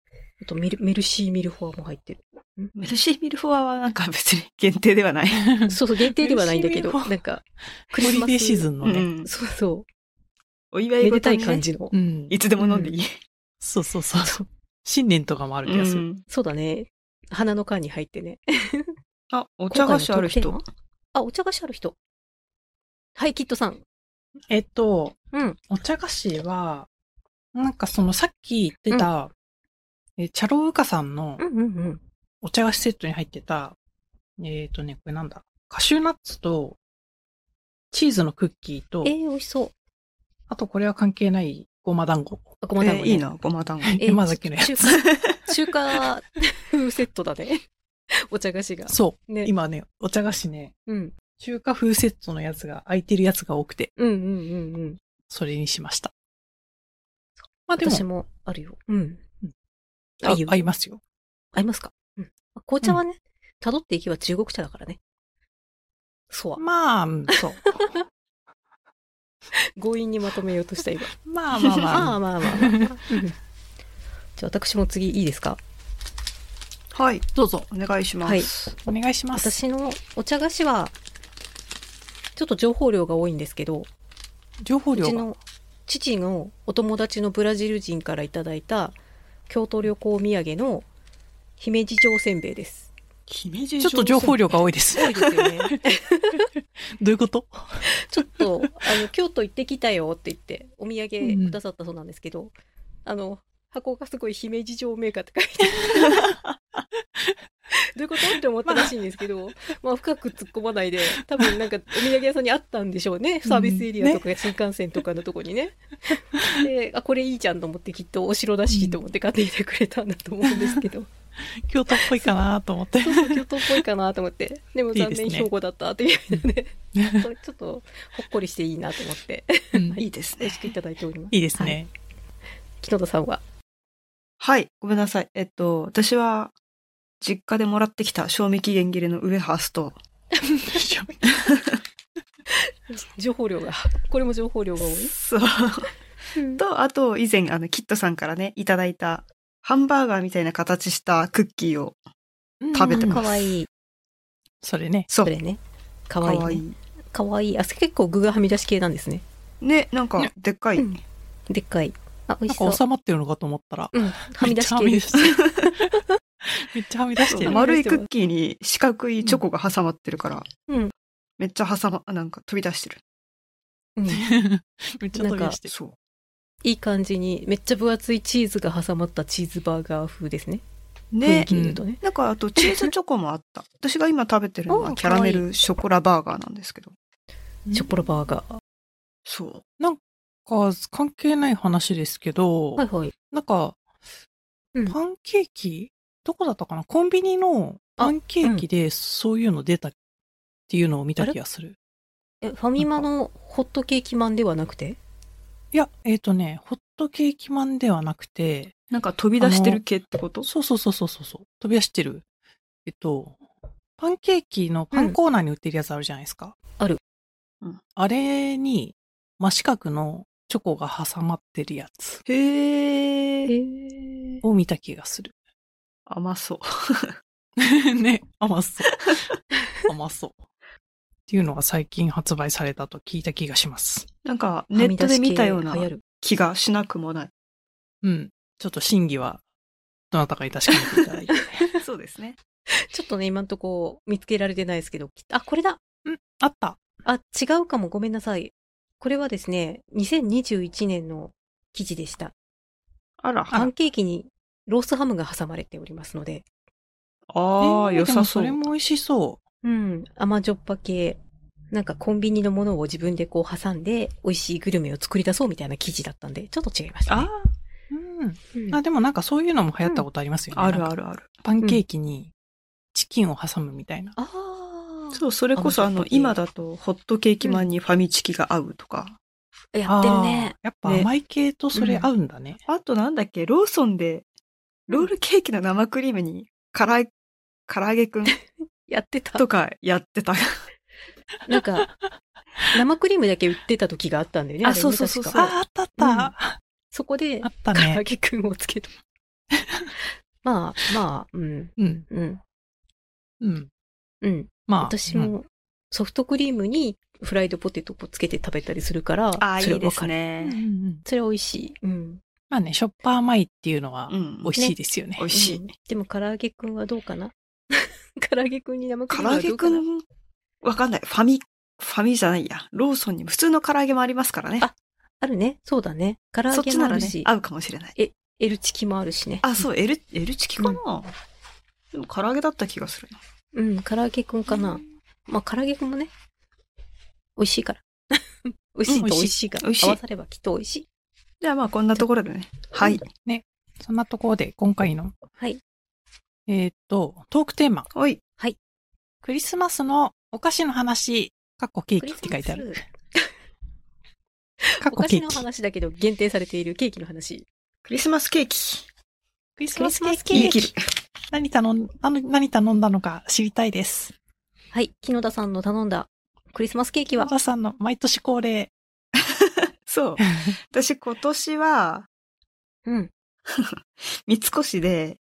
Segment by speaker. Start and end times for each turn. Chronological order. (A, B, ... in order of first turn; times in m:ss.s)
0:00.4-0:02.8 A
0:02.8-0:05.5 B
0:05.4-0:07.2 C
0:05.7-0:08.7 A
0:08.0-0:09.1 C
0:08.8-0:09.3 B
0:09.2-0:09.9 A
0:10.7-0:11.6 B
0:11.0-0:11.9 A
0:11.9-0:12.4 C
0:12.3-0:13.1 B
0:12.6-0:12.9 A
0:13.6-0:16.1 C
0:14.2-0:14.5 A
0:15.7-0:16.2 B
0:16.3-0:19.0 A
0:19.3-0:20.6 B
0:19.7-0:20.6 A
0:21.2-0:22.0 A
0:23.2-0:23.8 A
0:24.5-0:25.2 C
0:25.3-0:25.6 A
0:25.7-0:26.9 C
0:27.5-0:29.3 C
0:30.2-0:31.4 C
0:31.4-0:32.0 A
0:32.4-0:33.8 C
0:34.4-0:36.8 C
0:37.9-0:39.1 C
0:39.0-0:39.7 A
0:40.5-0:42.5 C
0:42.6-0:43.3 A
0:42.8-0:44.0 B
0:43.8-0:45.0 C
0:44.0-0:49.5 A
0:44.9-0:45.4 B
0:48.9-0:50.7 C
0:50.9-0:51.2 A
0:51.4-0:53.9 C
0:54.0-0:55.0 A
0:55.3-0:56.1 C
0:57.7-0:58.0 C
0:57.8-0:59.2 A
1:00.2-1:00.6 A
1:00.2-1:01.0 C
1:01.6-1:05.0 A
1:06.3-1:06.6 A
1:06.6-1:07.8 C
1:07.3-1:08.0 A
1:09.8-1:11.1 A
1:11.2-1:13.2 C
1:11.6-1:12.0 B
1:11.8-1:13.4 A
1:14.4-1:15.6 A
1:16.9-1:18.7 B
1:17.4-1:17.7 C
1:18.2-1:18.5 A
1:18.8-1:19.6 C
1:19.4-1:20.9 A
1:22.4-1:23.9 A
1:24.6-1:25.3 C
1:24.9-1:29.0 A
1:29.5-1:30.9 A
1:31.6-1:32.9 A
1:33.3-1:34.5 B
1:33.8-1:35.8 C
1:34.9-1:36.5 A
1:36.6-1:37.8 C
1:37.8-1:42.5 A
1:41.2-1:41.6 C
1:43.0-1:46.3 A
1:45.9-1:46.3 C
1:47.7-2:01.1 A
1:48.7-1:48.9 C
1:53.4-1:54.3 C
1:58.7-1:59.0 C
2:00.4-2:00.8 C
2:01.5-2:03.8 C
2:01.9-2:02.3 A
2:03.0-2:11.8 A
2:04.9-2:05.5 C
2:07.0-2:07.3 C
2:09.7-2:10.0 C
2:10.0-2:10.6 B
2:11.3-2:11.9 C
2:12.8-2:13.4 A
2:14.4-2:16.5 B
2:17.2-2:20.0 B
2:20.4-2:21.5 C
2:21.4-2:21.8 B
2:22.9-2:25.2 A
2:25.1-2:25.9 B
2:26.4-2:26.6 A
2:26.6-2:32.0 B
2:32.6-2:33.3 C
2:32.7-2:33.3 B
2:32.9-2:33.7 A
2:34.6-2:35.1 C
2:35.2-2:39.2 A
2:36.2-2:36.8 B
2:39.6-2:40.9 B
2:40.8-2:42.8 A
2:42.5-2:47.6 C
2:43.9-2:46.2 A
2:47.3-2:50.5 B
2:47.4-2:48.1 A
2:51.4-2:53.0 B
2:54.0-2:54.3 A
2:54.1-2:55.7 C
2:55.2-2:55.6 A
2:55.7-2:56.0 B
2:56.6-3:00.6 A
3:01.1-3:07.0 B
3:01.2-3:02.0 A
3:01.5-3:01.8 C
3:02.6-3:02.9 A
3:04.7-3:05.4 A
3:07.7-3:08.6 A
3:09.3-3:09.6 B
3:09.8-3:13.8 C
3:12.8-3:13.1 A
3:14.9-3:20.0 C
3:18.0-3:18.6 A
3:20.7-3:21.8 C
3:22.4-3:25.0 A
3:25.7-3:28.8 C
3:28.9-3:30.5 B
3:29.4-3:29.8 C
3:30.4-3:32.2 C
3:32.8-3:33.4 C
3:34.0-3:36.6 C
3:34.9-3:35.2 A
3:38.0-3:42.2 C
3:42.3-3:43.5 B
3:43.5-3:44.4 A
3:44.4-3:45.3 C
3:46.1-3:47.2 B
3:47.6-3:49.2 C
3:48.9-3:49.2 B
3:49.8-3:50.4 C
3:51.3-3:54.1 C
3:54.2-3:57.3 B
3:54.7-3:56.0 A
3:58.0-3:59.4 C
4:00.1-4:01.7 C
4:01.7-4:02.4 B
4:02.7-4:05.8 A
4:06.0-4:06.8 C
4:07.0-4:12.3 A
4:13.2-4:13.6 B
4:13.5-4:16.5 A
4:17.3-4:18.6 B
4:17.6-4:19.4 C
4:19.6-4:21.2 A
4:21.7-4:27.3 A
4:27.1-4:27.5 B
4:27.9-4:30.9 C
4:28.5-4:28.8 A
4:30.5-4:31.4 B
4:31.4-4:32.3 C
4:32.9-4:34.2 C
4:34.2-4:36.4 A
4:35.1-4:39.2 B
4:39.7-4:40.6 A
4:39.9-4:42.6 C
4:42.7-4:44.3 B
4:44.9-4:47.1 B
4:47.7-4:48.4 B
4:48.9-4:49.4 A
4:49.4-4:50.6 B
4:51.5-4:51.9 A
4:52.7-4:56.3 A
4:54.6-4:55.5 B
4:55.4-4:56.6 C
4:56.9-4:59.0 A
4:57.4-4:58.0 C
4:59.6-4:59.9 C
5:00.4-5:02.4 A
5:01.8-5:02.1 C
5:03.4-5:03.7 C
5:04.2-5:10.1 A
5:04.7-5:05.3 C
5:09.4-5:10.6 B
5:10.4-5:11.0 C
5:11.0-5:12.2 A
5:12.5-5:15.3 C
5:14.1-5:14.5 B
5:15.2-5:15.6 B
5:15.3-5:19.8 A
5:19.1-5:20.0 B
5:20.6-5:24.7 B
5:24.6-5:27.3 A
5:26.5-5:28.0 B
5:28.0-5:29.5 A
5:29.4-5:31.1 B
5:31.9-5:33.2 B
5:33.6-5:36.1 A
5:37.4-5:40.9 A
5:38.9-5:40.0 B
5:41.4-5:43.0 B
5:43.2-5:45.1 C
5:46.5-5:47.9 C
5:47.9-5:48.2 B
5:49.2-5:52.8 C
5:52.0-5:53.3 A
5:54.6-5:57.5 A
5:54.8-5:55.4 C
5:57.9-5:58.9 B
5:59.6-6:00.7 C
5:59.7-6:00.6 A
6:00.3-6:00.8 B
6:01.3-6:04.1 C
6:04.7-6:07.3 A
6:07.2-6:08.7 C
6:09.2-6:12.1 B
6:12.9-6:13.1 A
6:13.5-6:15.2 B